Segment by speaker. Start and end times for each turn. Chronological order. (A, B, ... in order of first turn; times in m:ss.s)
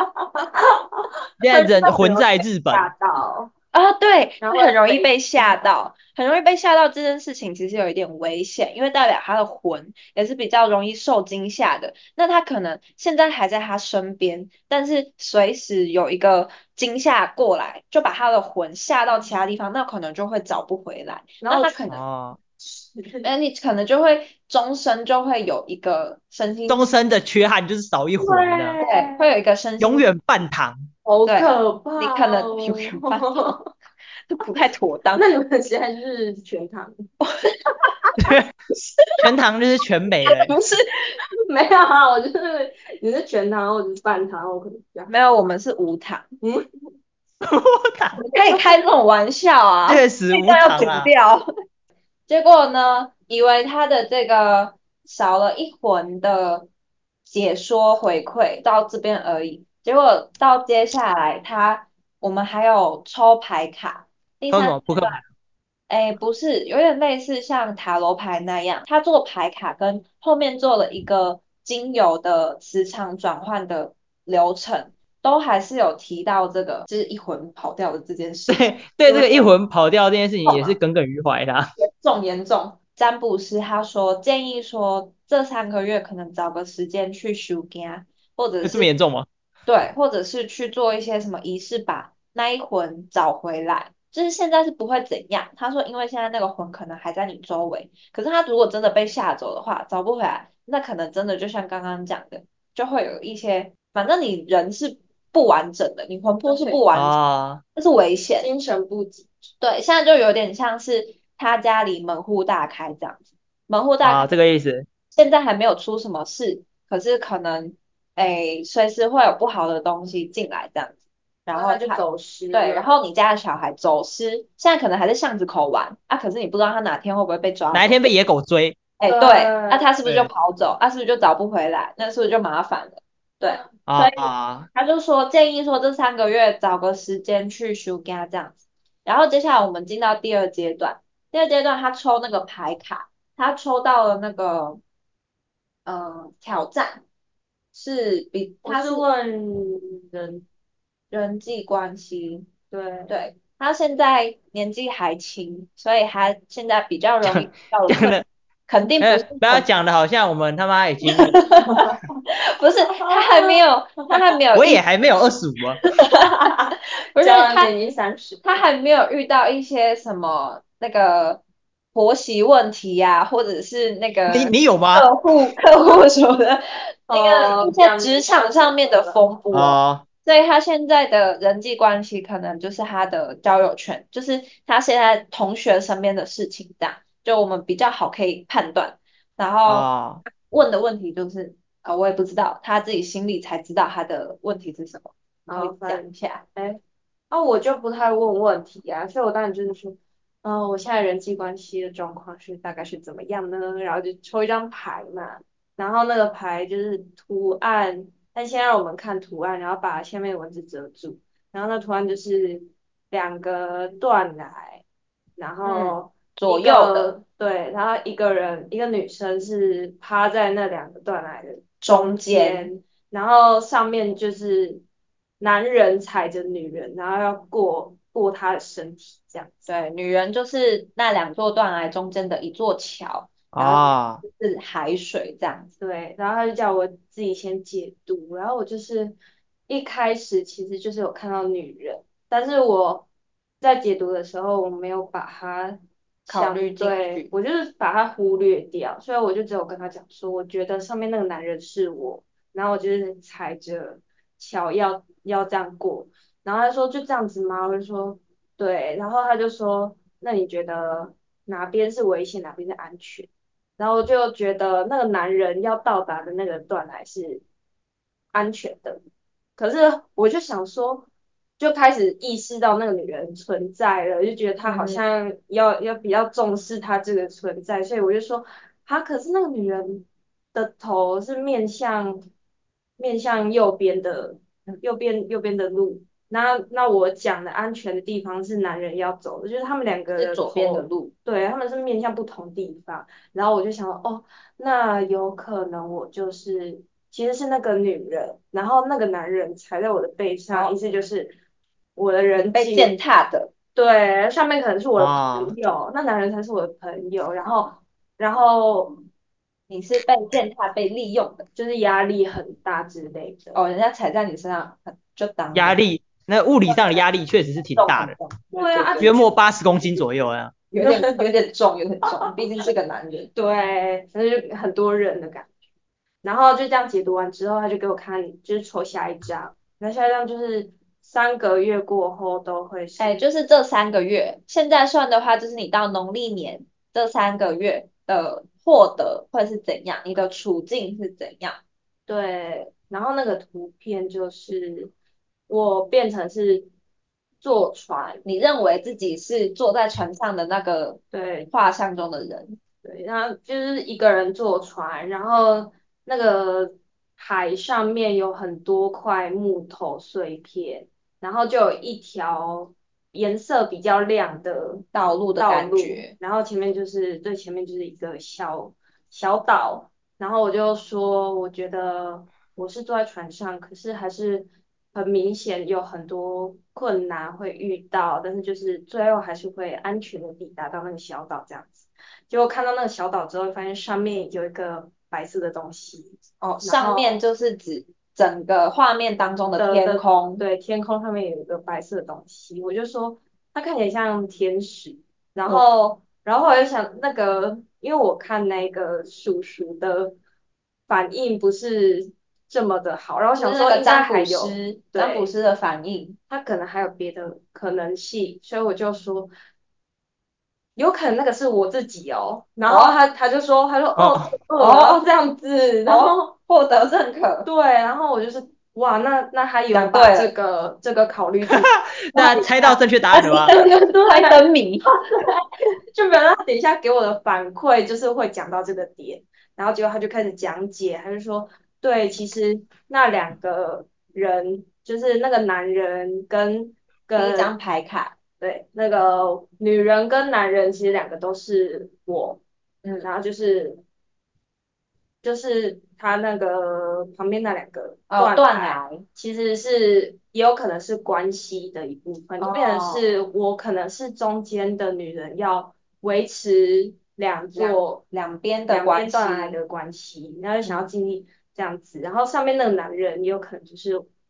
0:00.2-0:03.5 A
0:01.4-0:02.9 B
0:03.7-0:22.0 C
0:04.4-0:05.8 A
0:21.4-0:22.0 A
0:21.9-0:22.4 B
0:22.6-0:23.3 A
0:23.2-0:26.9 C
0:26.7-0:28.8 B
0:28.2-0:29.3 A
0:28.8-0:30.1 C
0:29.8-0:30.9 B
0:31.0-0:33.7 A
0:31.3-0:33.6 C
0:34.3-0:35.3 C
0:35.2-0:37.0 A
0:38.2-0:38.5 B
0:39.2-0:40.5 B
0:40.4-0:40.9 C
0:41.4-0:45.1 A
0:45.1-0:46.3 C
0:46.4-0:46.7 A
0:47.4-0:48.2 B
0:48.3-0:51.5 C
0:49.9-0:51.1 B
0:52.3-0:56.7 C
0:57.3-1:05.2 C
1:04.5-1:05.2 B
1:05.9-1:19.5 C
1:18.5-1:21.7 B
1:20.4-1:20.8 C
1:21.8-1:28.9 C
1:28.6-1:29.3 B
1:29.7-1:47.2 C
1:46.5-1:46.8 A
1:46.9-1:47.6 B
1:47.8-1:48.5 C
1:48.4-1:49.3 A
1:49.6-1:54.4 C
1:54.0-1:54.9 B
1:55.1-2:02.0 C
2:01.5-2:02.9 A
2:02.5-2:08.1 C
2:07.7-2:08.8 B
2:09.0-2:24.8 C
2:09.1-2:09.9 A
2:10.0-2:10.3 B
2:13.9-2:14.7 B
2:25.9-2:27.0 C
2:27.7-2:29.1 C
2:28.6-2:30.4 A
2:31.1-2:32.5 C
2:32.7-2:33.1 A
2:33.1-2:39.7 C
2:37.3-2:38.3 B
2:39.0-2:41.4 B
2:41.2-2:41.8 C
2:41.6-2:42.0 A
2:42.6-2:44.8 C
2:42.9-2:44.2 A
2:44.5-2:45.8 B
2:46.0-2:46.5 C
2:46.4-2:48.4 A
2:47.1-2:47.7 C
2:48.4-2:51.4 C
2:51.9-3:16.4 C
2:54.3-2:55.1 B
2:57.1-2:59.2 A
2:59.5-3:00.0 B
3:09.7-3:10.2 B
3:15.5-3:16.8 A
3:17.3-3:34.8 A
3:35.4-3:44.8 A
3:35.6-3:37.1 C
3:41.8-3:42.7 C
3:45.4-3:49.7 A
3:49.7-3:55.7 C
3:53.5-3:54.2 B
3:55.8-3:59.2 A
3:59.7-4:03.1 A
4:03.6-4:27.4 A
4:06.3-4:07.3 C
4:28.3-4:29.0 A
4:29.6-4:31.1 A
4:31.6-4:42.2 A
4:34.6-4:35.0 C
4:43.0-5:01.4 A
4:50.2-4:51.1 C
5:00.5-5:00.8 C
5:02.0-5:02.9 A
5:02.5-5:03.5 C
5:03.8-5:09.0 A
5:05.0-5:05.5 B
5:09.7-5:11.5 C
5:11.6-5:13.6 A
5:13.5-5:15.8 C
5:15.5-5:18.2 B
5:16.7-5:17.0 C
5:17.8-5:19.2 C
5:18.5-5:19.3 A
5:19.0-5:20.5 B
5:20.7-5:23.3 C
5:20.8-5:21.3 A
5:22.0-5:22.4 A
5:23.4-5:25.5 A
5:26.2-5:33.2 A
5:33.0-5:41.6 C
5:42.1-5:44.9 A
5:45.5-5:46.7 A
5:47.4-5:48.2 A
5:48.2-5:52.6 C
5:51.1-5:51.5 A
5:52.8-6:04.9 A
6:04.9-6:06.2 C
6:05.4-6:27.2 A
6:26.4-6:30.4 C
6:29.6-6:40.2 A
6:40.9-6:45.3 A
6:43.4-6:46.2 C
6:46.3-6:49.3 A
6:50.8-6:56.3 A
6:52.7-6:53.0 C
6:54.0-6:54.3 B
6:54.6-6:55.1 C
6:55.9-6:57.5 C
6:57.4-7:02.8 A
6:59.7-7:00.3 C
7:02.1-7:03.5 B
7:03.2-7:04.9 C
7:03.5-7:05.4 A
7:05.9-7:17.5 A
7:17.2-7:18.2 C
7:18.4-7:22.4 A
7:23.0-7:23.8 A
7:25.2-7:38.0 A
7:28.1-7:29.0 C
7:32.4-7:33.1 C
7:37.6-7:39.6 C
7:38.7-7:44.1 A